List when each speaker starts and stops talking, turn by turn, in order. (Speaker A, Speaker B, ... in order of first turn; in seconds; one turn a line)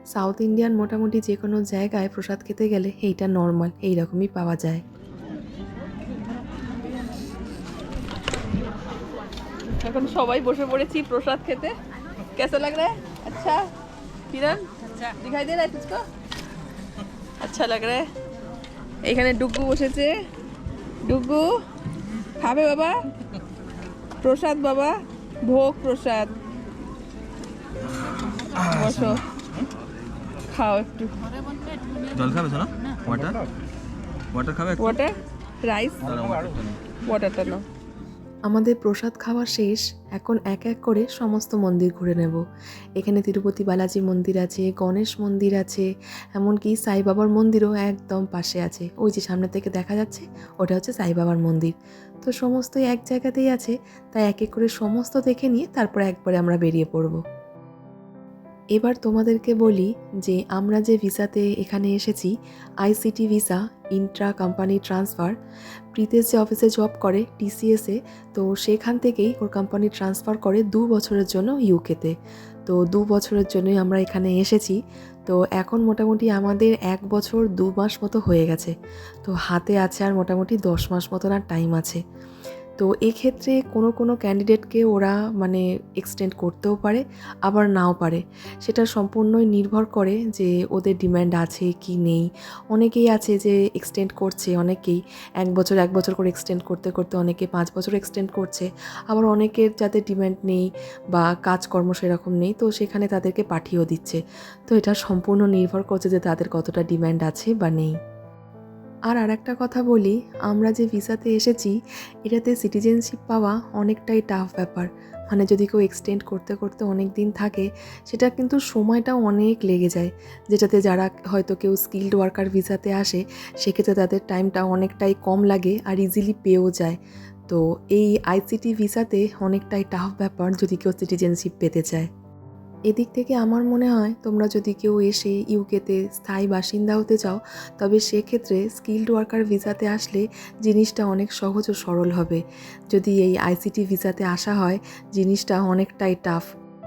Speaker A: 0.1-4.8
Speaker B: 9.8-11.7
Speaker B: 12.4-13.6
Speaker B: 14.3-16.0
Speaker B: 17.4-18.0
Speaker B: 19.1-20.1
Speaker B: 21.0-21.5
Speaker B: 22.4-22.9
Speaker B: 24.2-26.3
Speaker B: 28.6-29.2
Speaker C: 28.7-29.2
Speaker B: 30.5-31.1
Speaker C: 32.1-33.4
Speaker C: 34.3-35.0
Speaker B: 34.8-36.1
Speaker C: 36.0-36.8
Speaker B: 37.0-37.6
Speaker A: 38.5-42.4
Speaker A: 43.0-45.9
Speaker A: 46.4-51.7
Speaker A: 52.2-57.2
Speaker A: 58.8-62.3
Speaker A: 62.8-65.3
Speaker A: 65.9-72.1
Speaker A: 72.7-74.8
Speaker A: 75.3-78.7
Speaker A: 79.2-82.0
Speaker A: 82.8-107.9
Speaker A: 109.1-111.7
Speaker A: 112.3-127.0
Speaker A: 127.5-132.1
Speaker A: 132.9-142.4
Speaker A: 142.9-146.4